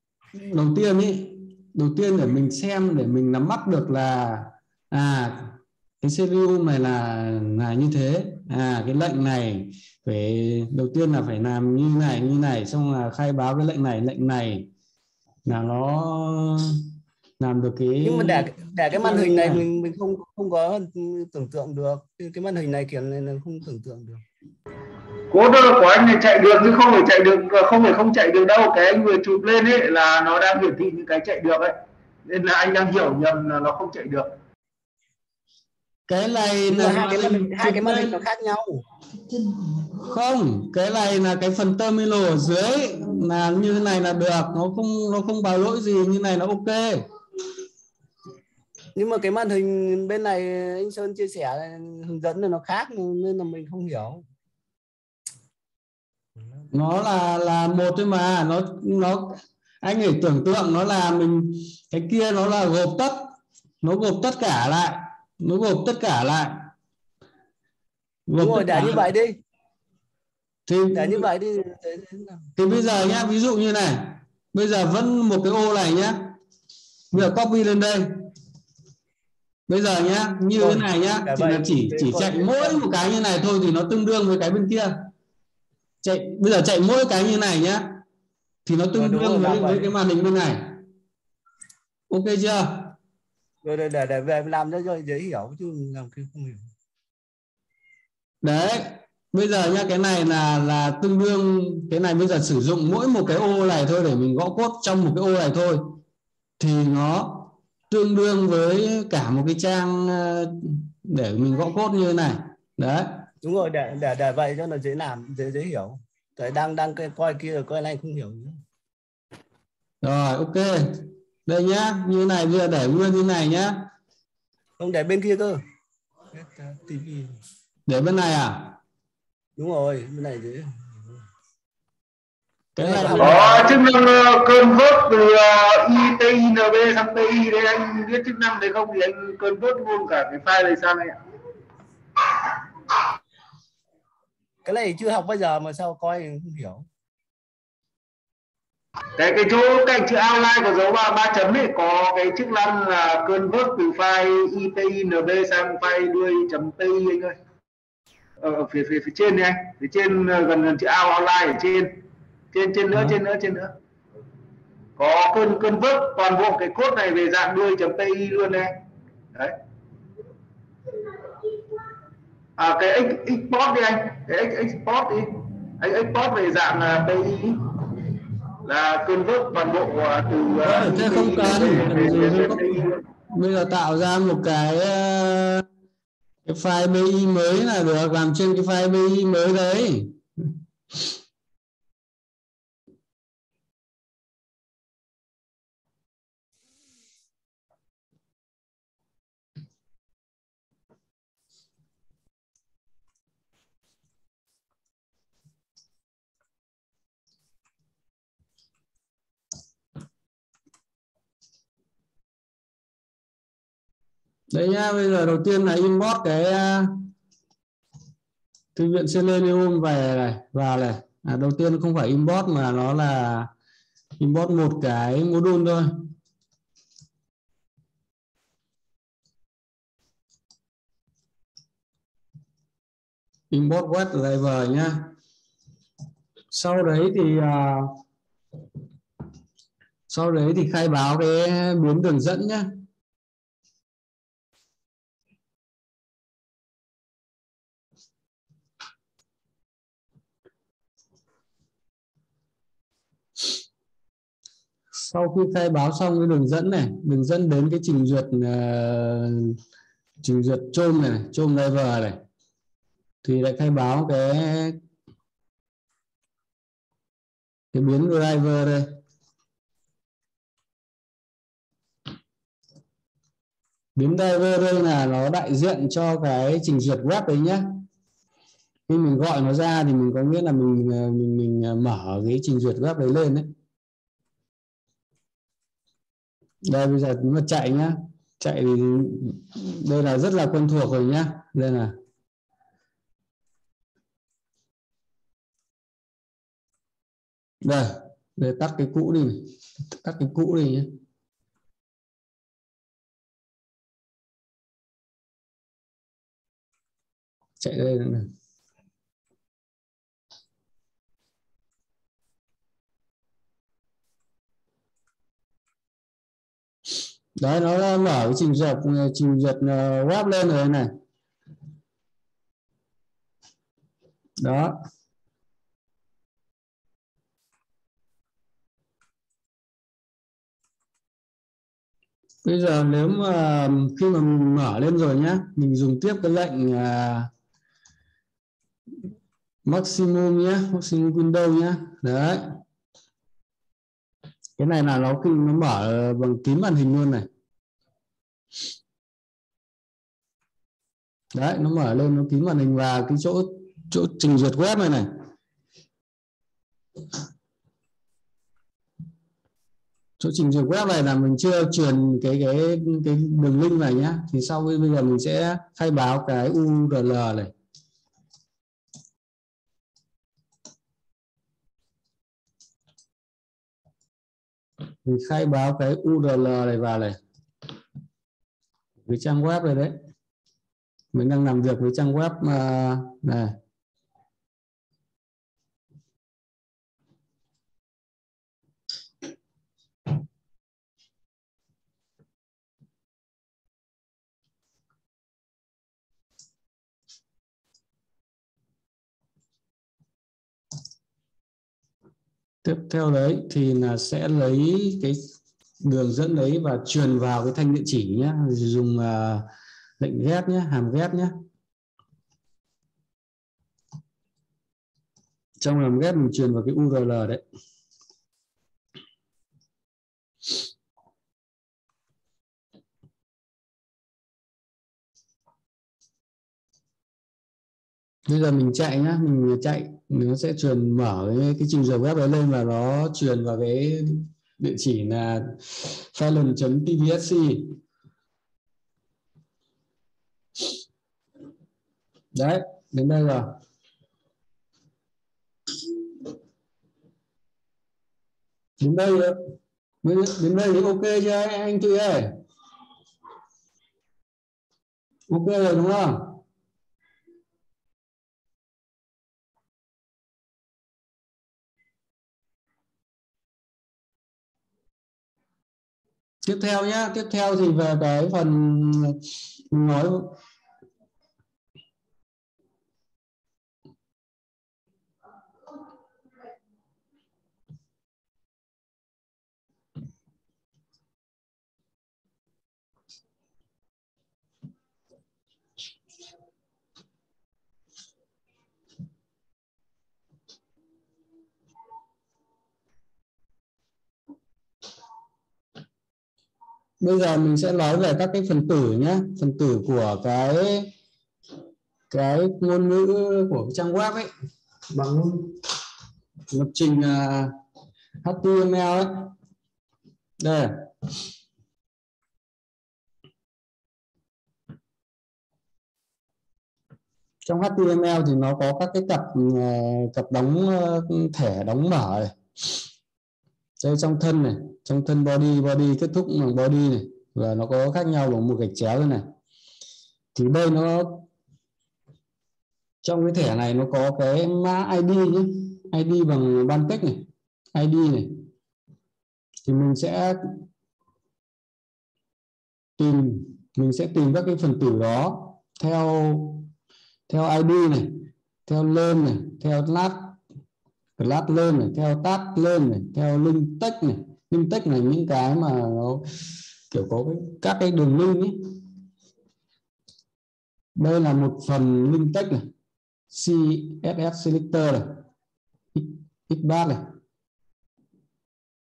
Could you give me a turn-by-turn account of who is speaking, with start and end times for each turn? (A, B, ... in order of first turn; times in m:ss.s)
0:00.3-0:14.7 A
0:15.4-0:16.9 A
0:17.4-0:19.6 A
0:18.0-0:24.2 B
0:25.3-0:31.7 C
0:32.2-0:34.3 C
0:36.1-0:38.2 A
0:36.7-0:38.8 B
0:40.0-0:47.0 A
0:48.9-0:54.2 B
0:56.7-1:03.3 A
1:03.8-1:06.7 A
1:08.3-1:09.1 A
1:08.4-1:09.4 B
1:10.7-1:11.3 A
1:10.9-1:12.4 B
1:12.6-1:16.3 A
1:17.1-1:18.2 A
1:19.7-1:24.9 A
1:20.6-1:22.8 B
1:26.0-1:28.0 A
1:28.6-1:30.8 A
1:28.9-1:29.9 B
1:32.1-1:32.9 A
1:33.6-1:36.7 B
1:38.4-1:46.0 A
1:46.6-1:53.2 A
1:53.4-1:58.6 B
2:00.0-2:03.8 A
2:04.8-2:05.6 B
2:06.3-2:07.3 B
2:07.9-2:08.7 A
2:09.6-2:11.2 B
2:12.7-2:13.8 A
2:12.8-2:13.8 B
2:13.2-2:21.2 C
2:24.6-2:26.9 B
2:29.2-2:37.4 C
2:38.4-2:41.9 C
2:42.5-2:43.7 C
2:45.0-2:48.7 C
2:52.6-2:57.7 C
2:58.6-3:03.0 C
3:00.6-3:02.8 A
3:03.3-3:05.6 A
3:06.4-3:10.2 A
3:34.5-3:36.9 A
3:38.7-3:43.5 A
3:44.2-3:45.9 A
3:53.5-3:55.1 A
3:56.5-3:57.9 A
4:00.1-4:02.7 A
4:14.9-4:19.6 A
4:20.2-4:22.2 A
4:23.2-4:24.8 A
4:27.7-4:28.9 A
4:34.0-4:37.8 A
4:38.9-4:43.5 A
4:46.6-4:51.9 A
4:57.6-5:00.9 A
5:07.6-5:08.3 A
5:17.4-5:20.9 A
5:24.4-5:24.7 A
5:32.4-5:37.3 A
5:39.6-5:42.4 A
5:44.6-5:47.3 A
5:51.3-5:55.1 A
6:00.2-6:07.5 A
6:15.0-6:17.2 A
6:19.0-6:19.9 A
6:21.1-6:23.5 A
6:42.6-6:45.2 A
6:45.8-6:49.4 A
6:50.0-6:51.3 A
6:55.6-6:57.4 A
7:08.3-7:17.8 A
7:22.3-7:23.5 A
7:28.8-7:29.4 A
7:30.0-7:32.3 A
7:35.3-7:36.4 A
7:46.4-7:49.2 A
7:49.7-7:50.4 A
8:17.0-8:20.9 A
8:22.1-8:24.3 A
8:24.9-8:25.5 A
8:26.5-8:27.5 A
8:28.2-8:29.3 A
8:30.4-8:30.7 A
8:37.4-8:42.3 A
8:43.8-8:49.2 A
8:50.3-8:51.2 A
8:53.0-8:57.2 A
8:57.7-8:58.3 A
8:59.6-9:00.4 A
9:03.0-9:06.7 A
9:07.3-9:08.1 A
9:08.6-9:10.3 A
9:11.2-9:16.2 A
9:16.9-9:18.6 A
9:21.0-9:22.6 A
9:23.3-9:25.0 A
9:25.9-9:27.0 A